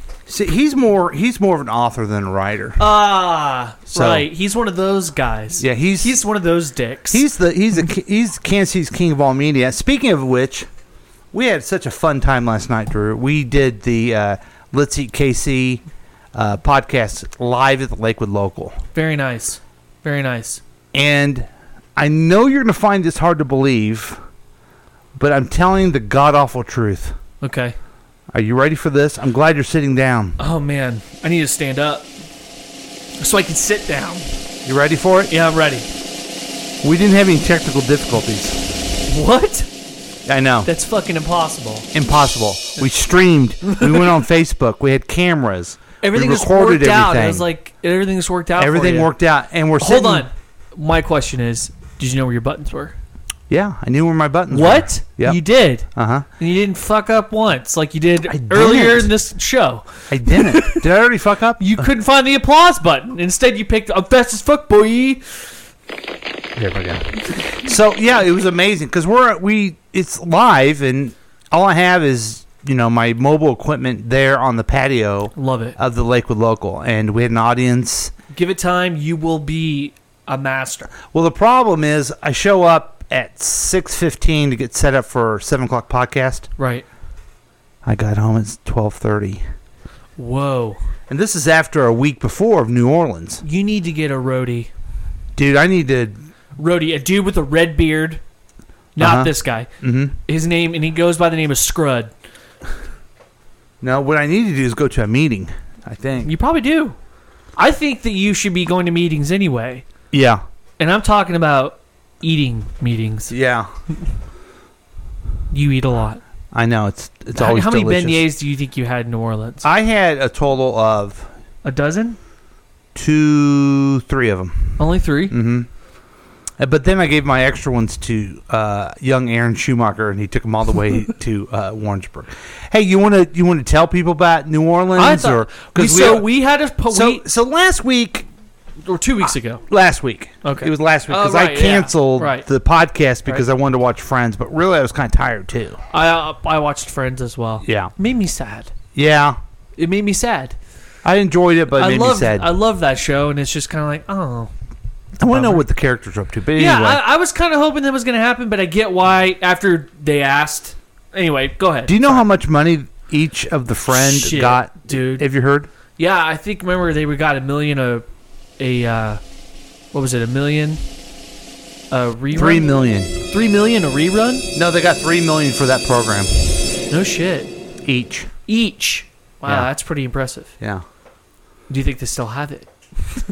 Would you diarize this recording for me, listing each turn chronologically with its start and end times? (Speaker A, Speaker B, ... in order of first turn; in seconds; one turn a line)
Speaker A: 0.3-2.8
Speaker B: 2.8-7.2
Speaker A: 3.9-4.3
Speaker A: 5.6-6.2
Speaker A: 7.1-10.7
Speaker A: 11.3-15.8
Speaker A: 16.3-18.8
Speaker B: 18.9-20.6
Speaker A: 20.9-24.2
Speaker A: 25.1-27.2
Speaker B: 27.4-27.8
Speaker A: 28.3-30.4
Speaker B: 30.4-32.1
Speaker B: 33.2-34.3
Speaker A: 34.6-35.3
Speaker B: 35.3-35.9
Speaker A: 36.8-38.6
Speaker B: 39.1-39.7
Speaker A: 40.3-40.7
Speaker B: 40.6-41.9
Speaker A: 41.9-47.5
Speaker B: 43.6-44.1
Speaker B: 46.0-49.1
Speaker A: 48.6-50.3
Speaker B: 49.8-53.0
Speaker A: 53.5-55.4
Speaker B: 54.5-60.8
Speaker A: 55.9-56.3
Speaker A: 58.3-59.1
Speaker A: 60.1-61.9
Speaker B: 61.6-65.2
Speaker A: 66.6-78.1
Speaker B: 75.4-75.8
Speaker B: 78.3-80.9
Speaker A: 81.1-86.5
Speaker B: 86.6-86.9
Speaker A: 87.8-89.4
Speaker B: 90.2-90.8
Speaker A: 91.1-93.4
Speaker B: 93.4-94.7
Speaker A: 95.3-96.2
Speaker B: 96.6-98.2
Speaker B: 99.0-99.7
Speaker A: 99.0-100.2
Speaker B: 100.3-102.1
Speaker A: 103.8-106.3
Speaker B: 106.2-107.0
Speaker B: 107.6-109.8
Speaker A: 110.1-110.4
Speaker B: 110.8-113.3
Speaker A: 113.3-113.7
Speaker B: 115.5-116.2
Speaker A: 116.5-118.2
Speaker B: 117.3-119.7
Speaker A: 119.6-121.3
Speaker B: 121.6-122.2
Speaker A: 123.0-125.7
Speaker B: 124.8-125.4
Speaker A: 126.6-136.3
Speaker B: 134.9-137.2
Speaker A: 136.9-138.3
Speaker B: 138.8-139.7
Speaker A: 139.7-145.8
Speaker B: 140.4-142.5
Speaker B: 145.9-148.7
Speaker A: 147.6-147.9
Speaker A: 148.9-149.4
Speaker B: 149.8-150.6
Speaker A: 151.0-152.5
Speaker B: 151.7-154.5
Speaker A: 155.2-157.0
Speaker B: 155.3-155.6
Speaker B: 156.6-162.2
Speaker A: 161.9-165.7
Speaker B: 163.9-165.3
Speaker B: 166.0-168.1
Speaker B: 168.6-169.2
Speaker B: 169.9-170.8
Speaker B: 171.9-174.5
Speaker A: 172.3-173.2
Speaker A: 174.5-176.5
Speaker B: 176.9-177.5
Speaker A: 177.8-178.3
Speaker B: 178.5-180.5
Speaker B: 181.7-182.7